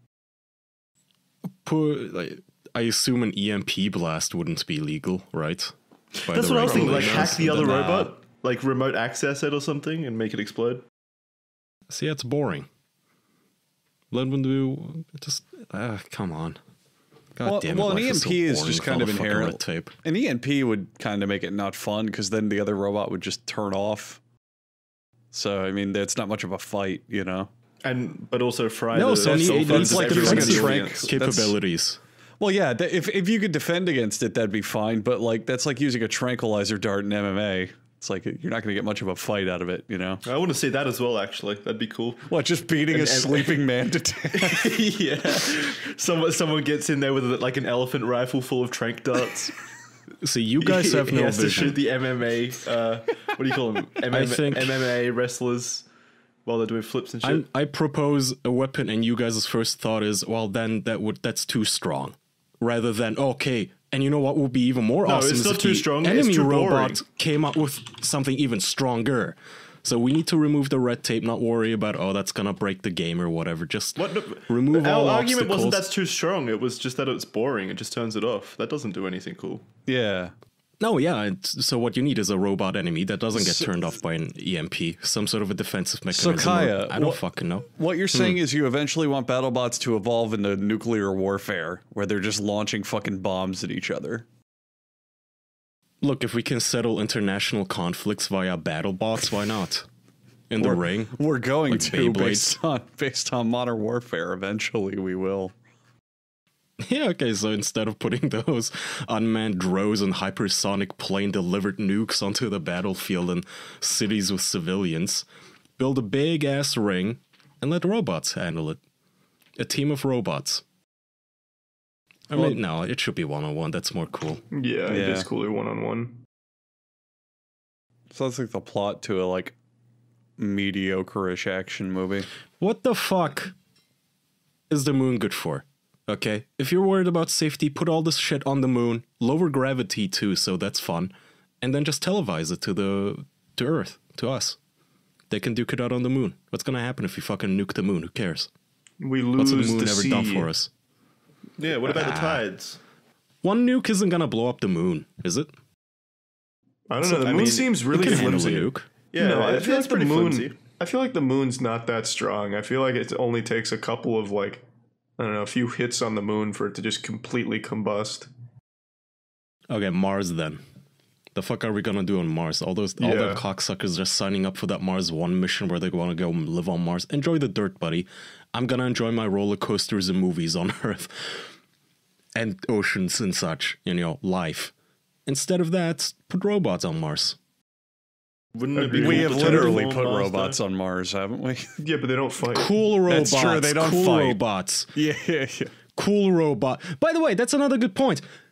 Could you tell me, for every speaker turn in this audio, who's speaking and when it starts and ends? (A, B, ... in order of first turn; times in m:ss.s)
0:01.6-0:05.7 A
0:06.2-0:10.8 B
0:06.3-0:08.1 A
0:06.7-0:08.1 C
0:11.9-0:12.7 A
0:14.1-0:16.6 A
0:17.4-0:19.9 A
0:17.4-0:24.2 C
0:25.3-0:27.5 C
0:27.8-0:31.1 B
0:28.9-0:32.0 A
0:29.2-0:31.5 C
0:32.4-0:40.2 C
0:40.2-0:42.3 B
0:42.3-0:44.8 C
0:42.9-0:43.6 B
0:44.4-0:49.6 B
0:50.2-0:51.8 A
0:50.6-0:55.9 B
0:54.1-0:55.0 A
0:56.4-0:57.4 B
0:57.2-1:15.8 A
1:05.0-1:07.0 B
1:14.0-1:19.6 B
1:19.9-1:20.3 C
1:20.8-1:28.4 A
1:23.3-1:23.7 C
1:26.1-1:34.3 C
1:36.0-1:39.9 A
1:40.5-1:41.1 A
1:40.6-1:45.5 C
1:41.7-1:42.6 A
1:46.8-1:55.3 A
1:55.8-1:58.8 A
1:59.6-2:00.6 A
2:02.3-2:04.4 A
2:04.5-2:06.2 D
2:04.9-2:05.3 C
2:08.1-2:09.6 C
2:10.4-2:12.3 C
2:12.6-2:13.6 A
2:14.7-2:24.6 A
2:25.3-2:28.5 A
2:29.0-2:30.5 D
2:29.4-2:30.7 A
2:31.6-2:32.8 B
2:31.8-2:32.4 A
2:33.4-2:35.5 A
2:36.9-2:44.6 D
2:37.0-2:38.5 B
2:37.9-2:38.9 A
2:39.1-2:40.5 B
2:45.2-2:48.3 D
2:49.7-2:50.6 A
2:51.3-3:01.5 A
2:53.0-2:53.4 D
3:02.4-3:04.7 A
3:05.3-3:07.4 A
3:08.6-3:10.6 B
3:08.7-3:09.8 D
3:08.9-3:11.7 C
3:11.8-3:12.8 D
3:12.5-3:14.9 A
3:13.1-3:14.4 C
3:15.0-3:15.7 C
3:16.0-3:18.2 A